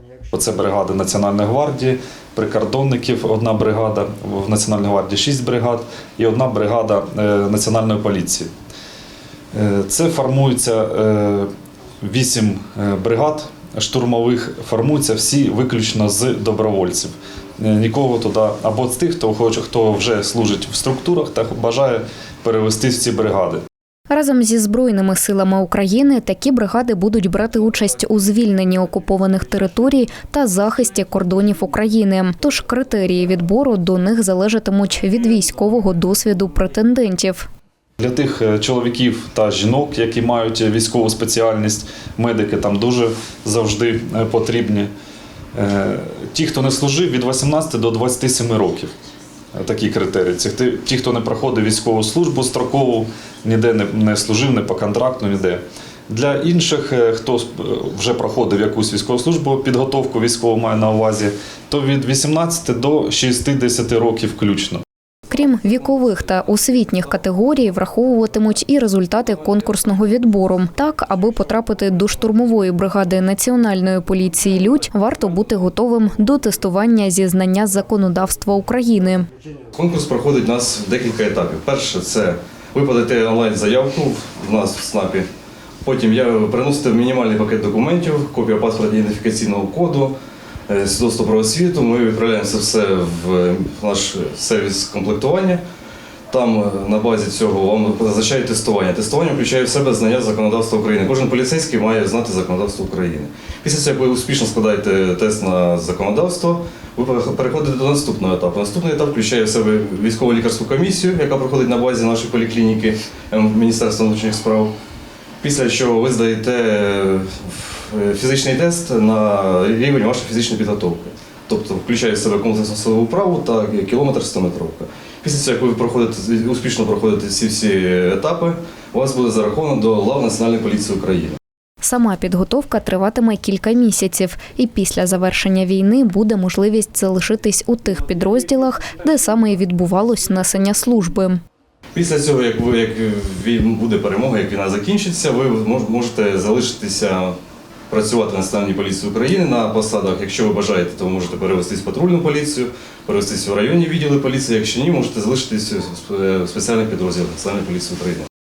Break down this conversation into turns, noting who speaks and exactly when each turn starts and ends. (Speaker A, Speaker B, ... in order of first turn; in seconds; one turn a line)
Speaker A: 0.3-8.5
Speaker A: 9.5-11.5
Speaker A: 12.0-23.6
Speaker B: 24.1-37.5
Speaker A: 38.0-44.9
Speaker A: 45.5-48.9
Speaker A: 49.5-64.8
Speaker B: 65.3-79.2
Speaker C: 79.7-85.3
Speaker C: 85.8-90.1
Speaker C: 90.7-95.6
Speaker C: 96.3-114.7
Speaker C: 115.4-131.4
Speaker B: 131.8-141.4
Speaker C: 141.9-147.3
Speaker C: 147.9-158.3